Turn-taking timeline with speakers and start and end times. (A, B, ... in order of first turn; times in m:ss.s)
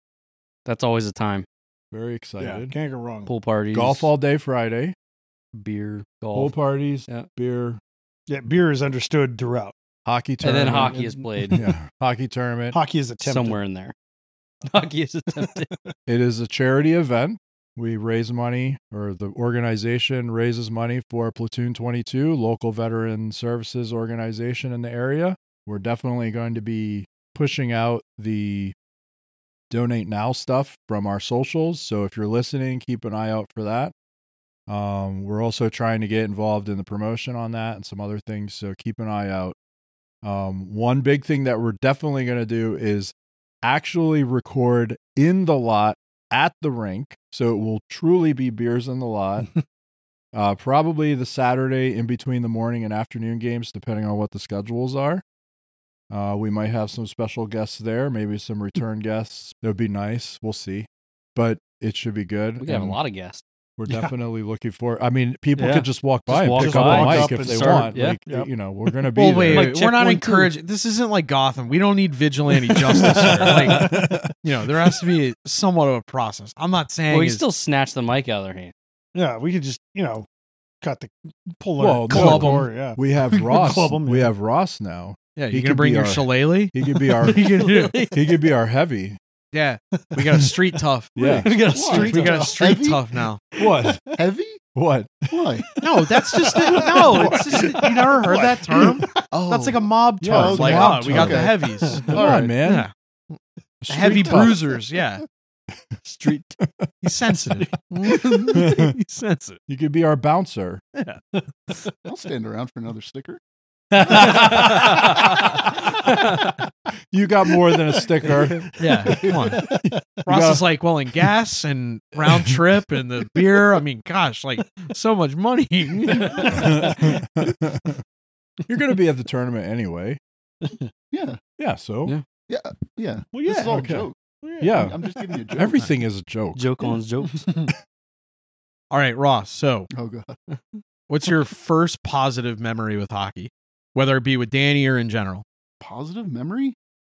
0:00.7-0:01.5 A
0:01.9-0:02.7 B
0:02.4-0:03.3 C
0:03.3-0:04.1 A
0:03.7-0:05.0 B
0:05.5-0:06.6 A
0:06.3-0:07.8 B
0:08.3-0:09.8 C
0:10.1-0:12.8 B
0:10.4-0:11.7 A
0:10.6-0:11.5 C
0:12.7-0:13.6 C
0:13.2-0:14.0 A
0:14.7-0:15.7 A
0:16.1-0:28.8 B
0:29.7-0:33.9 B
0:34.7-0:39.6 B
0:40.2-0:49.5 B
0:50.3-0:55.2 B
0:56.1-1:03.0 B
1:02.6-1:04.1 A
1:03.8-1:09.8 B
1:05.6-1:08.2 A
1:06.5-1:08.5 C
1:09.2-1:17.4 D
1:09.5-1:10.5 A
1:12.7-1:15.2 B
1:17.1-1:18.7 A
1:19.2-1:20.3 C
1:20.8-1:24.3 C
1:21.8-1:27.6 B
1:22.1-1:22.7 D
1:25.4-1:28.0 D
1:27.5-1:28.2 A
1:28.1-1:29.2 B
1:29.5-1:33.4 D
1:31.2-1:32.1 B
1:31.2-1:32.6 A
1:31.7-1:33.0 E
1:33.6-1:34.0 B
1:34.1-1:34.6 E
1:34.8-1:35.6 B
1:35.3-1:35.7 E
1:35.8-1:42.9 D
1:36.4-1:39.3 C
1:39.3-1:42.6 E
1:40.2-1:41.6 B
1:42.1-1:42.9 B
1:43.8-1:44.8 B
1:43.9-1:45.2 D
1:44.0-1:44.5 E
1:47.0-1:49.6 D
1:48.5-1:49.0 B
1:49.7-1:50.8 B
1:52.0-1:53.4 E
1:53.9-1:56.4 B
1:57.1-2:00.7 B
1:58.5-2:00.0 C
1:58.8-2:06.9 D
2:02.2-2:02.6 B
2:06.1-2:07.2 C
2:06.5-2:08.0 B
2:08.7-2:10.2 B
2:11.1-2:11.4 E
2:11.6-2:12.2 B
2:12.5-2:14.2 E
2:13.3-2:13.8 C
2:13.6-2:14.1 B
2:14.4-2:15.3 C
2:14.6-2:15.0 B
2:14.7-2:15.9 E
2:15.5-2:16.9 B
2:16.6-2:17.5 A
2:17.3-2:17.7 C
2:18.9-2:19.9 D
2:19.9-2:20.4 E
2:21.1-2:25.4 D
2:25.8-2:26.8 E